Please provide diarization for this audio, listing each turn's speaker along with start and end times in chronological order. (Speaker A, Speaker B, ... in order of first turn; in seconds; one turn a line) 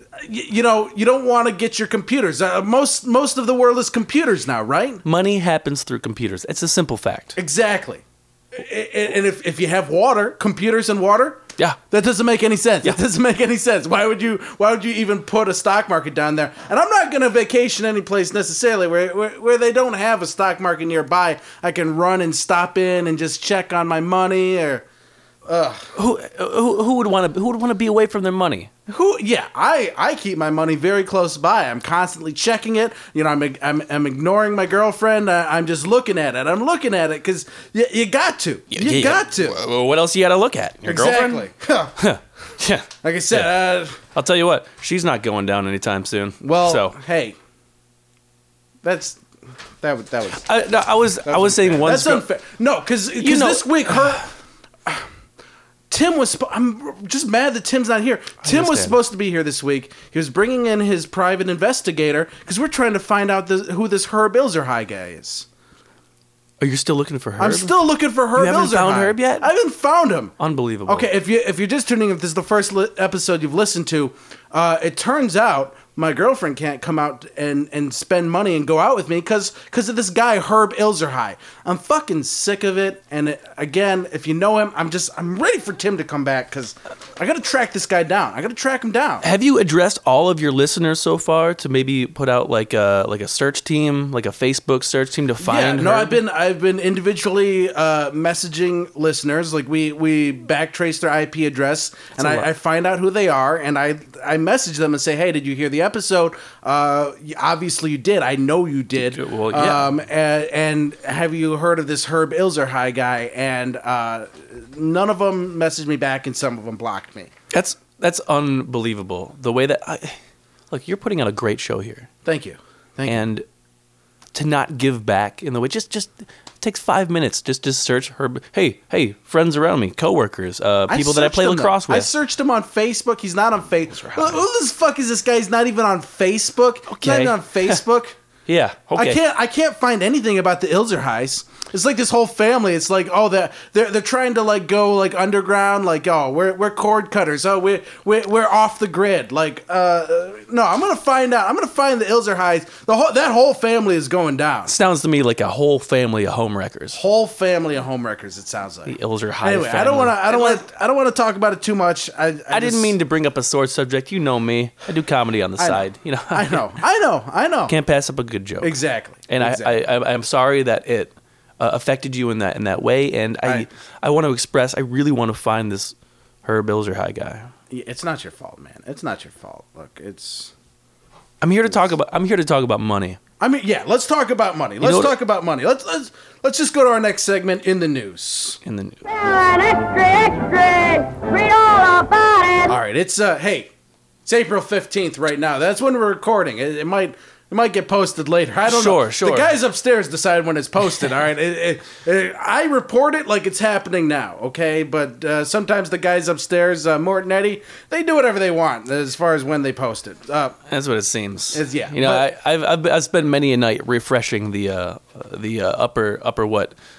Speaker A: 0.2-5.0
Speaker B: 5.0-7.4
Speaker A: 7.4-24.9
Speaker A: 25.5-25.9
Speaker B: 25.9-28.7
Speaker A: 28.9-39.6
Speaker B: 38.7-47.0
Speaker A: 40.8-42.0
Speaker A: 43.0-44.0
Speaker A: 46.4-47.4
Speaker A: 48.8-49.2
Speaker A: 49.8-50.5
Speaker B: 50.4-52.3
Speaker A: 51.2-54.3
Speaker B: 53.2-54.2
Speaker A: 55.9-65.5
Speaker B: 58.4-59.0
Speaker B: 66.6-67.8
Speaker A: 67.4-70.3
Speaker B: 68.4-69.5
Speaker B: 70.4-71.1
Speaker A: 70.9-89.3
Speaker B: 89.2-96.2
Speaker A: 95.4-117.3
Speaker B: 102.2-102.5
Speaker B: 109.0-109.9
Speaker B: 117.5-120.2
Speaker B: 120.7-122.1
Speaker A: 122.2-123.2
Speaker B: 123.0-123.5
Speaker B: 124.3-132.1
Speaker A: 130.9-138.2
Speaker B: 133.9-134.4
Speaker B: 136.9-137.8
Speaker B: 138.5-139.2
Speaker A: 138.9-154.8
Speaker B: 154.7-157.0
Speaker A: 156.9-163.0
Speaker B: 158.9-160.6
Speaker B: 162.5-166.7
Speaker A: 165.6-167.8
Speaker B: 167.7-168.8
Speaker A: 168.6-169.8
Speaker B: 169.3-177.5
Speaker A: 177.7-180.5
Speaker B: 181.4-183.2
Speaker A: 183.4-188.6
Speaker B: 184.8-185.2
Speaker B: 188.6-189.0
Speaker C: 189.1-192.8
Speaker A: 192.7-193.7
Speaker A: 194.3-210.6
Speaker B: 198.7-199.5
Speaker B: 210.7-216.7
Speaker A: 211.5-212.3